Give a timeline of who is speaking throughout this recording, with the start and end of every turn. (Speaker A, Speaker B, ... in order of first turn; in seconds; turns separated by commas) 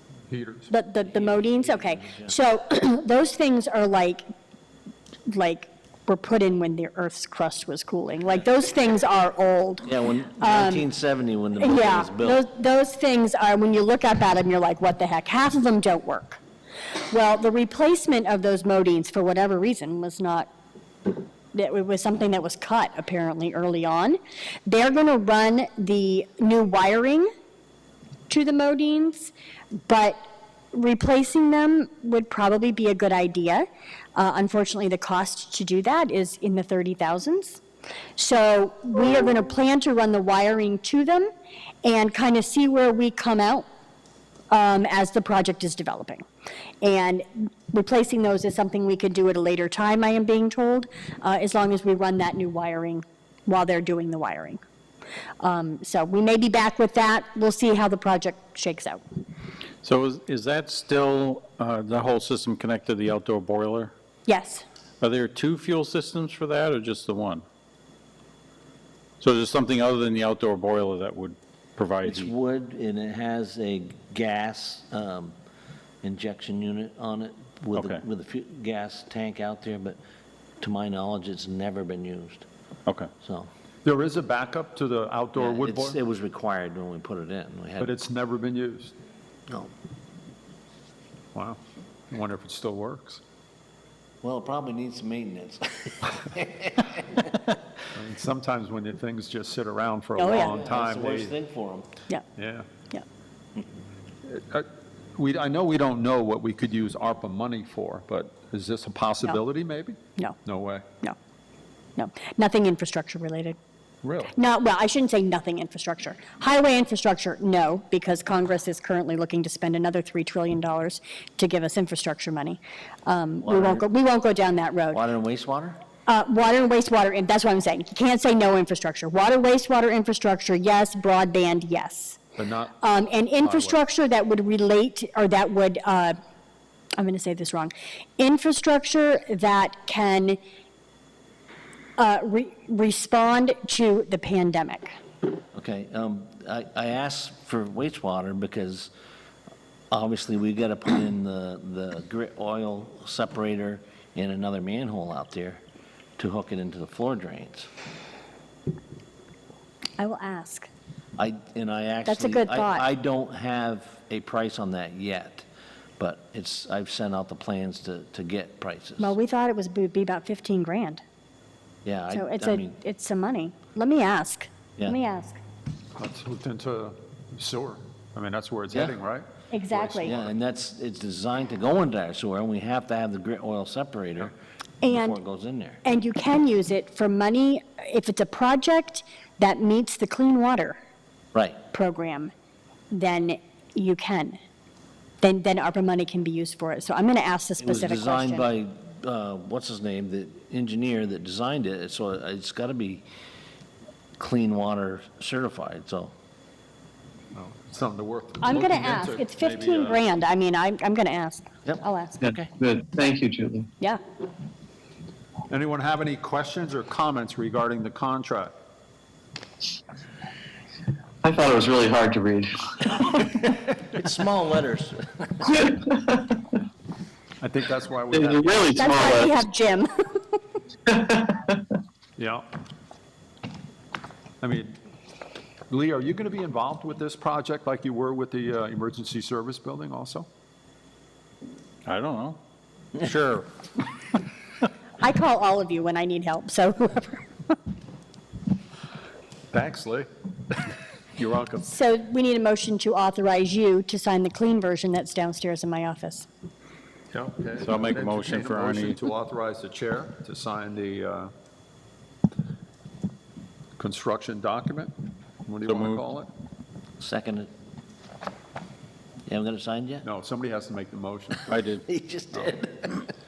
Speaker A: 0.3-0.7, Speaker B: 0.7-4.2, Speaker C: 1.0-2.3, Speaker B: 5.3-10.8, Speaker C: 9.8-12.4, Speaker B: 11.6-16.4, Speaker B: 17.1-20.5, Speaker B: 21.5-27.3, Speaker B: 28.3-29.3, Speaker B: 29.9-30.2, Speaker B: 30.7-37.6, Speaker B: 38.2-41.3, Speaker B: 41.8-43.7, Speaker B: 44.5-46.2, Speaker B: 46.8-54.6, Speaker B: 55.4-59.0, Speaker D: 59.8-63.9, Speaker B: 64.2-64.6, Speaker D: 65.0-67.4, Speaker D: 69.2-72.3, Speaker C: 72.0-75.3, Speaker C: 76.0-80.0, Speaker D: 77.8-78.0, Speaker C: 80.6-82.5, Speaker C: 83.2-83.5, Speaker A: 83.8-86.0, Speaker C: 85.4-87.9, Speaker A: 87.8-88.9, Speaker A: 92.1-93.2, Speaker C: 94.2-97.4, Speaker A: 97.9-101.3, Speaker B: 100.2-100.6, Speaker C: 100.3-101.9, Speaker A: 102.4-102.7, Speaker A: 104.2-110.8, Speaker B: 112.0-113.6, Speaker A: 114.0-114.3, Speaker B: 114.3-125.0, Speaker C: 123.4-123.8, Speaker C: 124.9-125.8, Speaker B: 126.1-132.2, Speaker A: 132.4-133.8, Speaker B: 132.8-136.1, Speaker B: 137.0-140.4, Speaker B: 142.0-144.9, Speaker C: 145.5-148.9, Speaker C: 149.9-155.6, Speaker C: 156.2-157.7, Speaker B: 160.0-160.7, Speaker C: 161.2-165.5, Speaker B: 162.1-162.8, Speaker C: 166.0-169.2, Speaker B: 169.0-171.0, Speaker C: 171.8-172.7, Speaker B: 172.1-175.4, Speaker A: 176.0-180.3, Speaker B: 179.5-180.1, Speaker C: 180.0-184.3, Speaker B: 184.8-185.2, Speaker C: 184.9-185.8, Speaker B: 185.8-190.8, Speaker C: 191.3-191.6, Speaker B: 191.7-192.3, Speaker B: 192.9-194.4, Speaker B: 195.2-198.4, Speaker C: 197.6-203.1, Speaker C: 204.2-206.1, Speaker A: 207.3-210.0, Speaker B: 208.4-212.2, Speaker C: 211.7-212.5, Speaker E: 212.6-213.7, Speaker A: 215.5-218.5, Speaker E: 221.2-222.6, Speaker C: 223.8-225.6, Speaker A: 227.4-229.2, Speaker E: 228.1-229.3, Speaker B: 228.8-229.9, Speaker E: 230.9-231.3, Speaker A: 232.2-232.4, Speaker A: 234.4-234.7, Speaker A: 235.7-240.2, Speaker D: 241.8-242.4, Speaker D: 243.0-243.5, Speaker B: 245.0-247.5, Speaker A: 249.5-251.6, Speaker B: 251.6-256.3, Speaker A: 257.1-261.3, Speaker D: 257.6-259.0, Speaker A: 263.8-264.9, Speaker A: 265.4-266.3, Speaker D: 265.6-266.1, Speaker C: 267.0-267.5, Speaker C: 269.3-270.1, Speaker A: 270.0-271.6, Speaker D: 271.5-271.8, Speaker C: 271.9-273.1